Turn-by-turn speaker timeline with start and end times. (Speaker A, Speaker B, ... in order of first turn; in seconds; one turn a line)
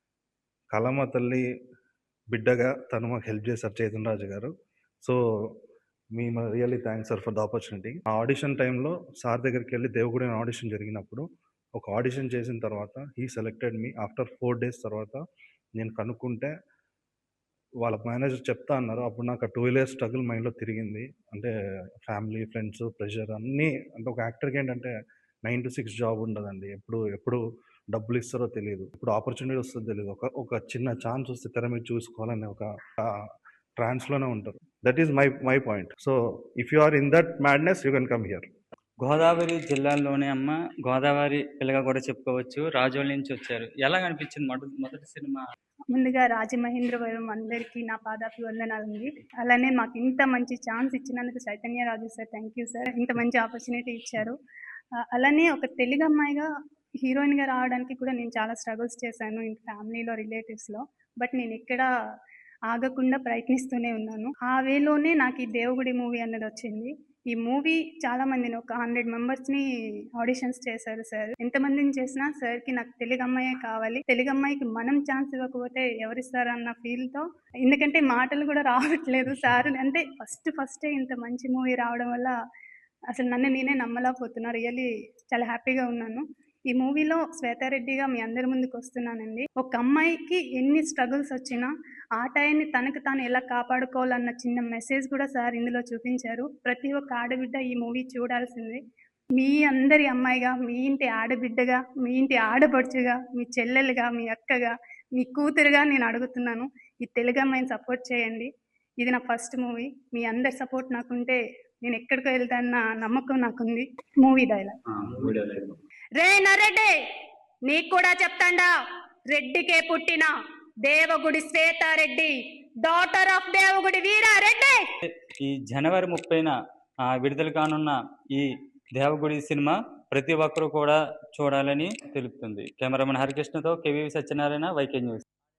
Speaker A: 0.7-1.4
Speaker A: 2.3-4.5
Speaker A: 5.0-5.6
Speaker A: 6.1-15.2
Speaker A: 15.8-16.5
Speaker A: 17.8-21.5
Speaker A: 22.1-24.9
Speaker A: 25.4-27.4
Speaker A: 27.9-38.5
Speaker B: 39.0-45.4
Speaker C: 45.9-54.4
Speaker C: 55.1-56.5
Speaker C: 57.0-61.9
Speaker C: 62.7-69.7
Speaker C: 70.2-82.3
Speaker C: 83.1-98.8
Speaker C: 99.4-108.5
Speaker C: 109.0-114.8
Speaker B: 115.3-115.5
Speaker C: 116.2-116.9
Speaker C: 117.7-118.7
Speaker C: 119.3-120.3
Speaker C: 120.9-124.8
Speaker B: 125.4-126.5
Speaker B: 127.1-135.2